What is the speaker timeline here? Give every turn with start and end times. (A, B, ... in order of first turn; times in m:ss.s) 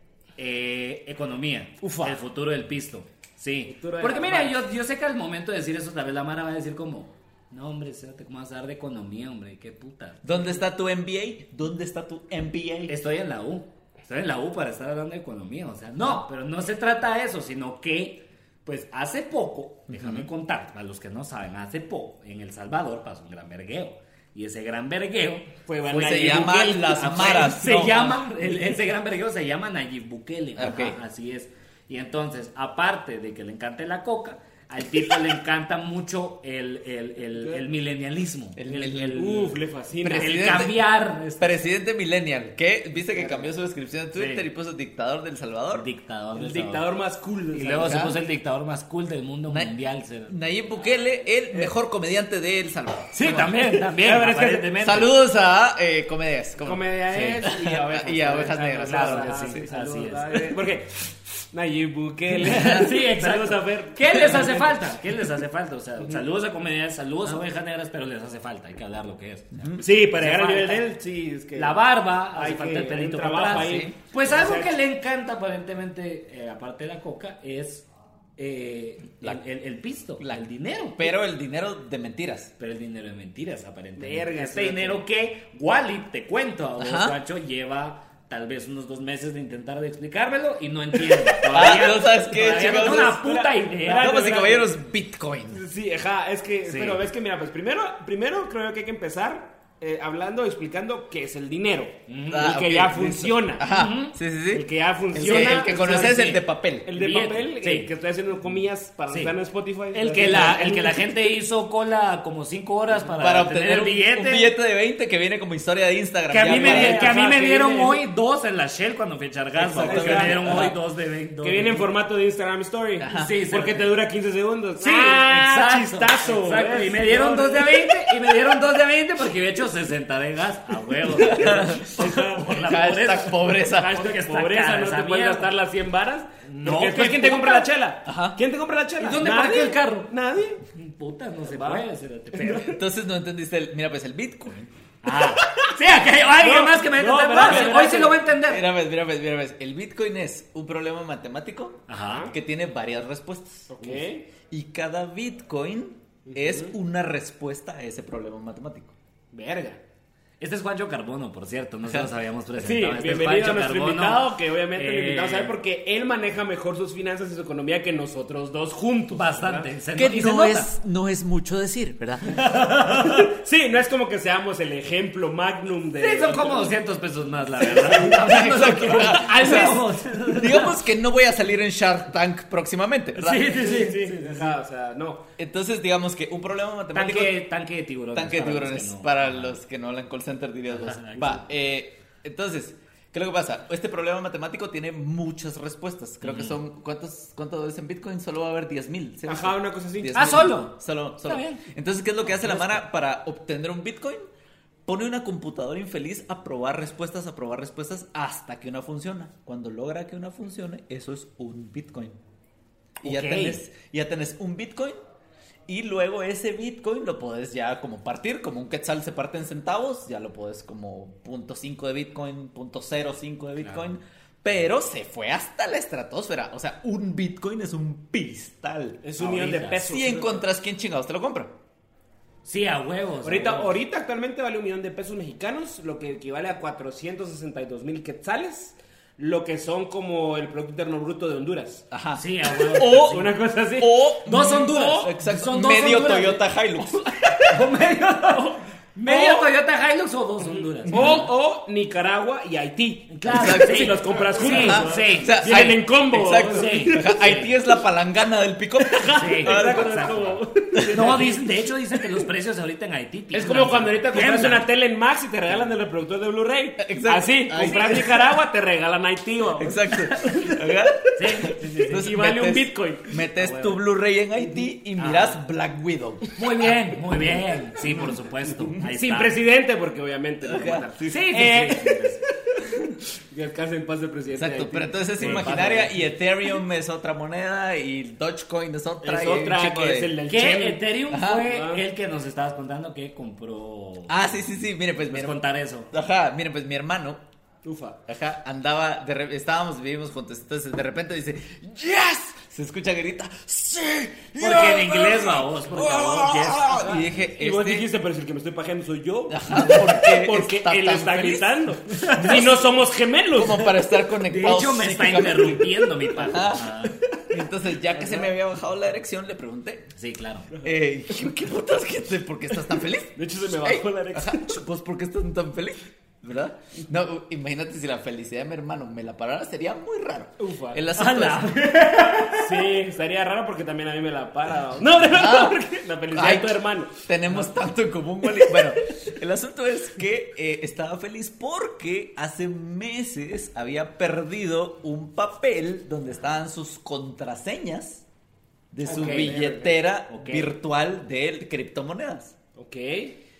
0:00.4-0:10.5 A
0:01.8-0:02.2 B
0:03.7-0:04.6 B
0:10.2-0:12.9 C
0:12.9-0:38.6 A
0:19.9-0:20.3 C
0:25.7-0:27.2 B
0:25.9-0:28.2 C
0:30.6-0:31.0 C
0:38.6-0:45.8 C
0:38.7-0:40.6 B
0:40.1-0:41.6 A
0:43.1-0:43.5 B
0:44.1-0:44.4 A
0:45.7-0:46.8 A
0:46.4-0:48.1 B
0:47.5-0:50.4 A
0:47.8-0:48.2 C
0:50.3-0:53.7 C
0:53.1-0:55.1 A
0:54.0-0:54.8 B
0:54.8-0:59.6 C
0:56.6-1:04.9 B
0:58.8-1:00.6 A
1:02.4-1:10.9 A
1:09.5-1:09.8 C
1:09.8-1:14.7 B
1:11.6-1:21.1 A
1:13.5-1:13.9 C
1:21.0-1:22.5 C
1:22.6-1:34.2 A
1:24.0-1:25.0 B
1:26.8-1:27.2 C
1:31.3-1:34.7 B
1:31.5-1:33.2 C
1:34.0-1:35.6 C
1:35.5-1:43.9 B
1:36.7-1:37.0 A
1:42.1-1:42.6 A
1:42.3-1:46.9 C
1:43.7-1:44.1 A
1:44.5-1:51.1 B
1:45.2-1:47.9 A
1:49.9-1:54.5 A
1:53.2-1:57.1 C
1:56.3-2:01.8 A
1:56.4-1:58.0 B
1:59.6-2:00.7 C
1:59.8-2:00.8 B
2:01.4-2:08.0 B
2:03.0-2:03.3 C
2:03.1-2:03.9 A
2:04.8-2:15.5 A
2:11.2-2:14.0 C
2:11.2-2:12.6 B
2:13.6-2:20.6 B
2:16.5-2:17.7 A
2:18.1-2:18.4 C
2:19.0-2:20.1 A
2:20.8-2:22.8 A
2:21.5-2:22.8 B
2:22.7-2:24.7 C
2:25.0-2:28.7 A
2:25.3-2:25.7 B
2:26.4-2:28.3 B
2:28.4-2:38.9 C
2:31.9-2:32.3 A
2:32.1-2:32.3 B
2:33.7-2:34.3 B
2:36.3-2:36.7 B
2:39.3-2:39.8 B
2:40.4-2:45.6 A
2:41.9-2:42.1 C
2:42.6-2:49.7 B
2:49.1-2:50.7 A
2:49.9-2:52.5 C
2:52.4-2:53.2 A
2:53.0-2:56.7 B
2:56.0-3:00.8 A
2:57.6-2:58.2 B
2:58.1-3:03.5 C
2:58.9-2:59.8 B
3:03.2-3:04.6 A
3:03.3-3:05.3 B
3:05.4-3:07.4 C
3:06.9-3:09.5 A
3:08.1-3:24.2 C
3:10.7-3:11.4 A
3:16.2-3:16.6 A
3:19.3-3:20.4 B
3:20.1-3:21.6 A
3:24.9-3:32.2 C
3:33.0-3:35.0 C
3:33.0-3:33.6 A
3:35.7-3:49.0 C
3:43.6-3:43.9 A
3:49.0-3:50.5 B
3:49.2-3:49.8 A
3:49.8-3:51.5 C
3:52.4-3:53.7 A
3:53.2-4:01.9 B
4:01.9-4:07.6 C
4:02.2-4:03.3 A
4:03.0-4:04.1 B
4:04.2-4:06.4 A
4:07.5-4:11.2 A
4:09.0-4:09.5 B
4:10.4-4:17.2 B
4:10.9-4:11.3 C
4:13.1-4:15.4 A
4:13.3-4:21.2 C
4:16.5-4:17.5 A
4:18.8-4:21.4 B
4:19.2-4:20.4 A
4:20.9-4:24.7 A
4:23.3-4:30.5 B
4:26.8-4:28.2 C
4:29.6-4:36.3 C
4:31.2-4:32.1 A
4:31.9-4:33.1 B
4:33.4-4:33.8 A
4:35.0-4:35.4 A
4:36.4-4:39.3 A
4:37.9-4:38.1 C
4:38.8-4:45.9 B
4:40.4-4:40.9 C
4:41.0-4:42.2 A
4:44.4-4:50.1 C
4:45.2-4:45.9 A
4:49.0-4:51.8 B
4:50.3-4:54.2 A
4:51.1-4:51.5 C
4:54.1-4:55.4 C
4:55.1-4:55.9 A
4:55.9-4:57.2 C
4:57.6-4:58.0 B
4:58.1-5:07.9 C
5:04.4-5:07.0 A
5:05.8-5:13.7 B
5:09.3-5:11.6 C
5:12.0-5:12.5 A
5:13.3-5:16.8 C
5:14.2-5:17.0 A
5:17.3-5:19.9 C
5:20.0-5:20.5 A
5:20.6-5:31.6 C
5:23.2-5:24.6 B
5:30.4-5:30.8 B
5:30.9-5:32.7 A
5:32.3-5:37.0 B
5:35.1-5:35.6 C
5:36.1-5:48.0 C
5:38.4-5:38.7 B
5:48.7-5:52.4 C
5:48.8-5:49.8 B
5:48.8-5:49.4 A
5:50.1-5:50.5 A
5:52.6-5:53.2 B